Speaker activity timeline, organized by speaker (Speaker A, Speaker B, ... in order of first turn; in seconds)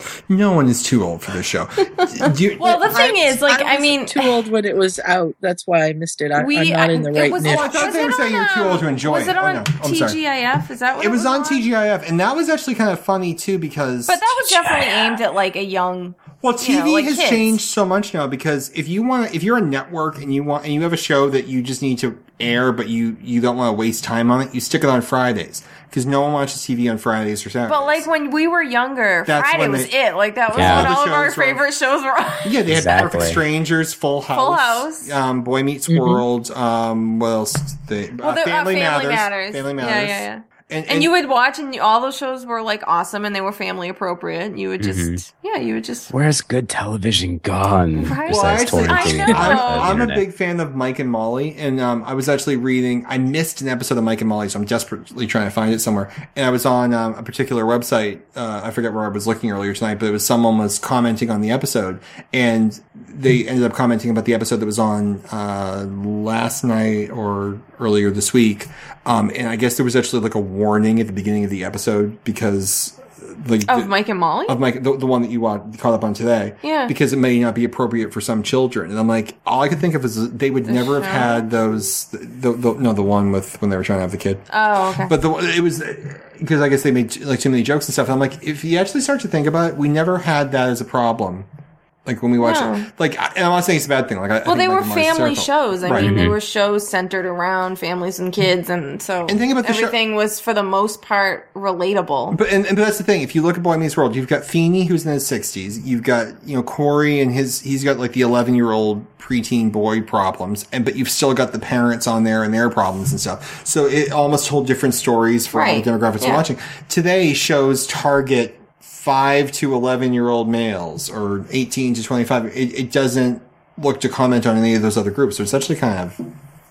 Speaker A: 0.3-3.1, 7.4-10.2, 10.9-14.3, 16.4-28.1, 29.3-29.9, 30.5-31.6, 32.4-41.1, 48.3-73.9, 74.5-84.5, 85.1-91.5, 92.0-96.2, 99.3-100.0, 102.3-126.2
Speaker B: 2.0-4.4, 6.3-11.7, 14.1-17.6, 27.7-32.6, 34.4-35.1, 38.2-46.1, 48.0-50.0, 73.7-74.6, 76.6-76.9, 80.7-81.5, 84.5-85.1, 92.4-92.9, 94.5-102.4, 115.5-116.4
Speaker C: 2.9-7.8, 35.9-36.2
Speaker D: 14.6-15.2, 30.6-30.9, 32.7-33.4, 44.8-45.2, 46.1-50.2, 96.0-96.4